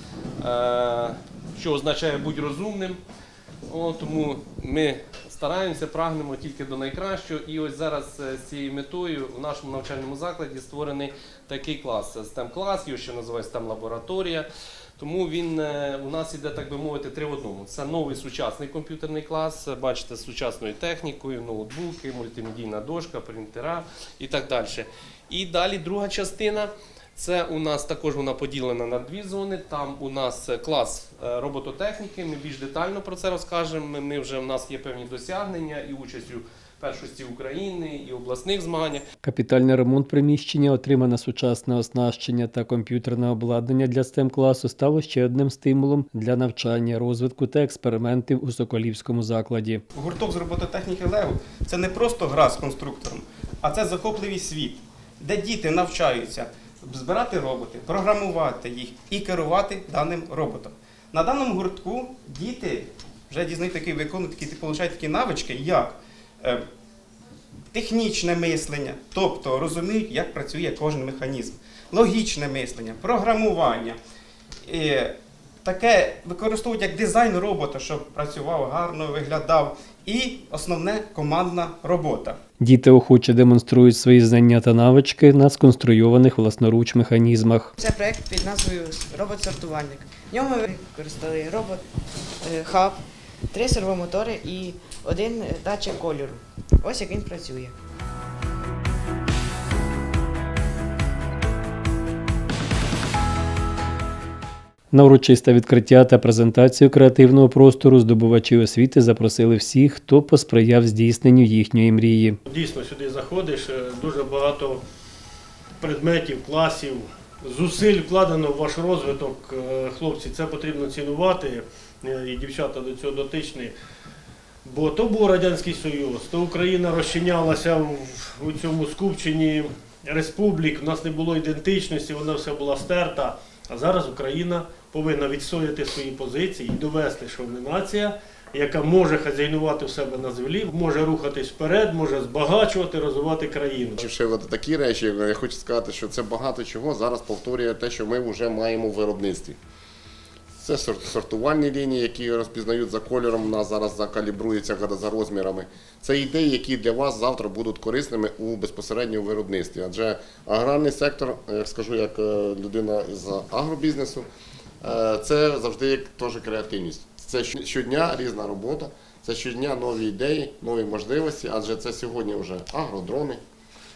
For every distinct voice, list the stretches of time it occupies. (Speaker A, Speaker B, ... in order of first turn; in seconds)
Speaker A: 0.4-3.0, 3.7-14.4, 15.0-39.0
Speaker B: 39.2-49.8, 82.6-87.7, 104.9-112.4
Speaker C: 49.9-66.6, 67.7-74.0, 74.7-82.4
Speaker D: 87.8-91.8, 92.4-97.7
Speaker E: 112.5-114.8, 115.8-123.7, 124.6-144.0
Speaker F: 144.0-149.6, 150.6-164.3, 164.8-173.4